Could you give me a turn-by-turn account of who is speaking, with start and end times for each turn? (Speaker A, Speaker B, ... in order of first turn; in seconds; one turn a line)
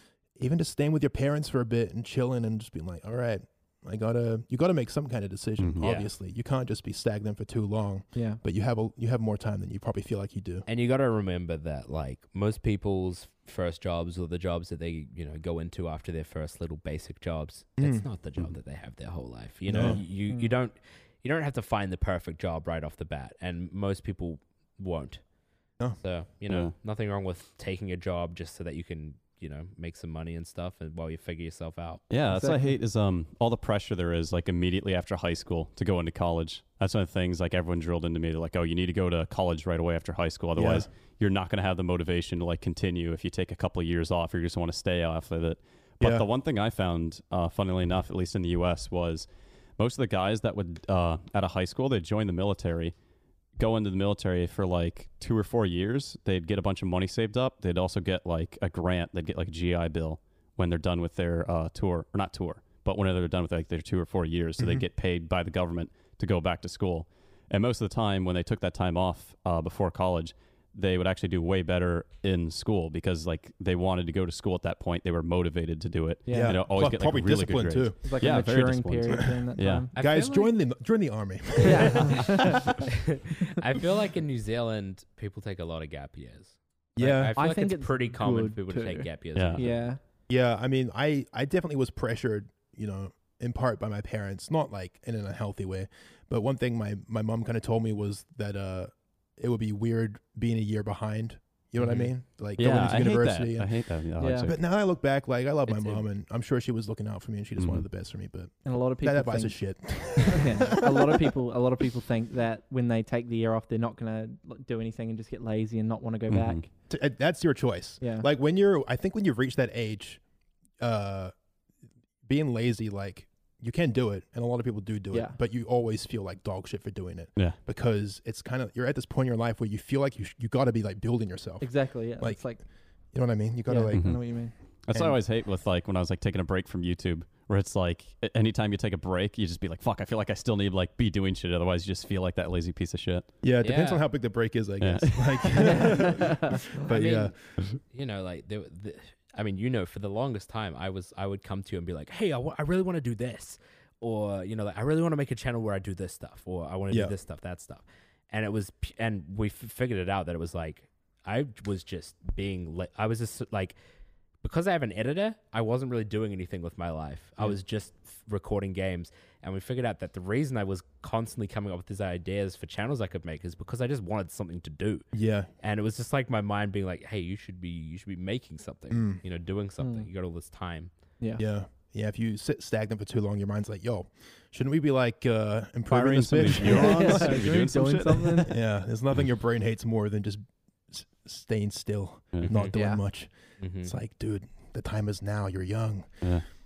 Speaker A: 0.4-10.6
Speaker B: 5.6-5.9
Speaker C: 5.8-6.1
Speaker D: 8.1-8.4
Speaker C: 10.7-25.2
Speaker A: 17.8-18.1
Speaker A: 19.7-20.0
Speaker B: 19.8-20.0
Speaker D: 20.3-20.5
Speaker C: 25.9-32.0
Speaker B: 32.1-49.3
Speaker D: 32.3-32.7
Speaker A: 40.5-40.9
Speaker A: 46.0-46.2
Speaker B: 49.8-52.9
Speaker B: 53.6-79.8
Speaker A: 64.6-64.8
Speaker D: 76.2-76.6
Speaker A: 76.3-78.4
Speaker D: 78.0-79.9
Speaker C: 79.9-80.5
Speaker A: 80.0-82.6
Speaker D: 81.6-82.7
Speaker C: 81.8-89.9
Speaker A: 87.0-87.3
Speaker D: 87.3-90.0
Speaker B: 89.3-89.6
Speaker A: 90.3-103.7
Speaker C: 101.8-102.1
Speaker B: 102.5-104.6
Speaker D: 104.2-104.5
Speaker A: 104.4-111.3
Speaker C: 105.7-106.0
Speaker B: 107.6-107.9
Speaker D: 108.6-109.6
Speaker D: 110.1-116.7
Speaker B: 116.3-116.6
Speaker A: 116.9-120.2
Speaker D: 118.0-118.3
Speaker A: 120.8-121.3
Speaker A: 122.2-132.5
Speaker D: 125.1-125.4
Speaker D: 131.6-132.6
Speaker A: 133.1-134.3
Speaker D: 133.7-134.5
Speaker B: 133.9-134.2
Speaker B: 134.8-143.3
Speaker A: 143.4-147.3
Speaker C: 143.6-144.0
Speaker B: 144.8-145.9
Speaker D: 145.6-146.6
Speaker C: 146.8-163.8
Speaker C: 164.4-175.1
Speaker A: 175.1-175.5
Speaker C: 175.6-180.9
Speaker A: 178.9-179.2
Speaker D: 179.8-180.1
Speaker A: 181.4-187.5
Speaker B: 185.9-188.5
Speaker D: 186.6-188.5
Speaker A: 188.4-193.3
Speaker C: 192.5-192.7
Speaker D: 192.7-193.0
Speaker C: 193.6-193.9
Speaker A: 193.8-196.2